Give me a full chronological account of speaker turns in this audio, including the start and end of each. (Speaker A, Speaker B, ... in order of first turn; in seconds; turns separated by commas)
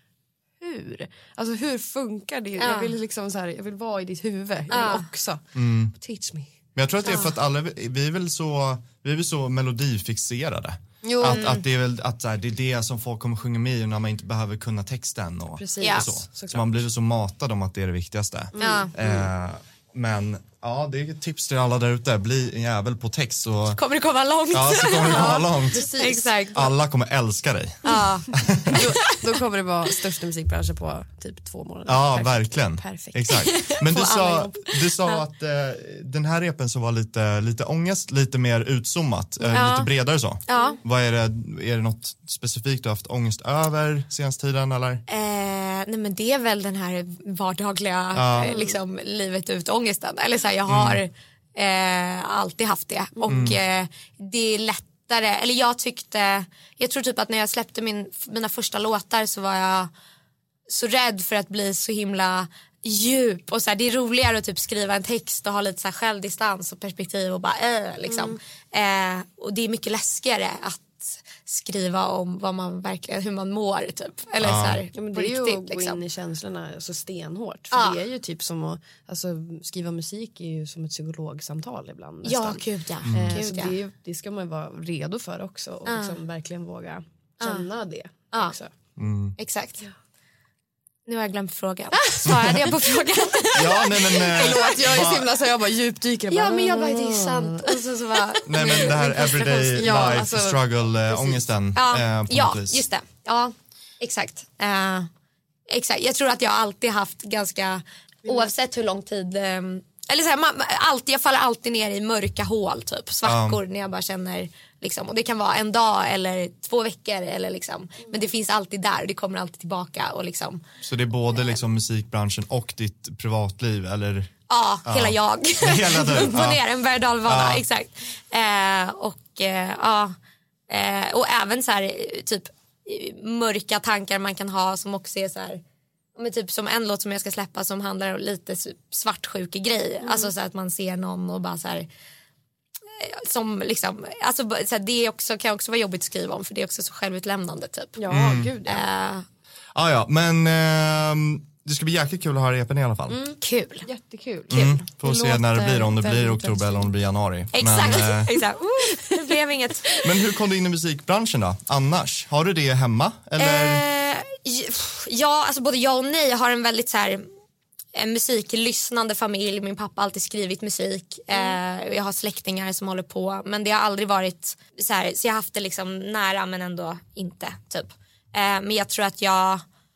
Speaker A: 0.6-6.5, Speaker B: 2.6-2.9, Speaker B: 4.7-5.0, Speaker C: 5.5-5.9, Speaker C: 6.8-23.8, Speaker B: 7.1-7.4, Speaker A: 11.0-11.5, Speaker B: 11.2-11.6, Speaker A: 15.6-16.6, Speaker B: 15.8-16.1, Speaker B: 18.6-18.9, Speaker A: 18.6-19.3, Speaker B: 23.8-26.6, Speaker C: 24.5-25.9, Speaker A: 24.9-26.7, Speaker C: 26.5-28.9, Speaker B: 27.9-29.3, Speaker A: 28.7-34.6, Speaker C: 31.9-45.0, Speaker B: 33.3-35.2, Speaker B: 39.5-39.9, Speaker B: 40.5-40.8, Speaker B: 45.1-59.9, Speaker C: 48.1-48.6, Speaker C: 50.7-51.0, Speaker C: 53.3-53.6, Speaker B: 60.7-76.0, Speaker A: 68.1-68.4, Speaker C: 74.4-74.8, Speaker A: 74.9-88.7, Speaker B: 77.7-78.0, Speaker B: 82.2-83.8, Speaker C: 83.0-83.4, Speaker B: 85.9-86.2, Speaker B: 87.4-87.7, Speaker C: 89.0-89.4, Speaker B: 89.4-89.9, Speaker B: 91.1-95.0, Speaker A: 91.9-93.1, Speaker C: 93.5-95.3, Speaker A: 94.1-97.9, Speaker B: 96.3-100.2, Speaker C: 98.5-102.8, Speaker A: 98.5-101.4, Speaker B: 101.8-105.1, Speaker B: 105.7-120.7, Speaker C: 113.2-113.6, Speaker C: 120.8-124.3, Speaker B: 124.5-130.2, Speaker C: 124.9-126.6, Speaker C: 127.2-127.6, Speaker B: 130.7-135.6, Speaker B: 136.2-141.9, Speaker A: 140.0-140.3, Speaker B: 142.9-148.0, Speaker A: 148.0-148.8, Speaker C: 148.1-148.5, Speaker B: 148.6-149.3, Speaker C: 149.7-153.2, Speaker A: 153.1-156.9, Speaker B: 153.4-153.9, Speaker C: 154.5-158.4, Speaker B: 157.5-160.0, Speaker A: 158.9-159.4, Speaker C: 160.0-163.8, Speaker B: 163.4-167.3, Speaker B: 167.9-179.6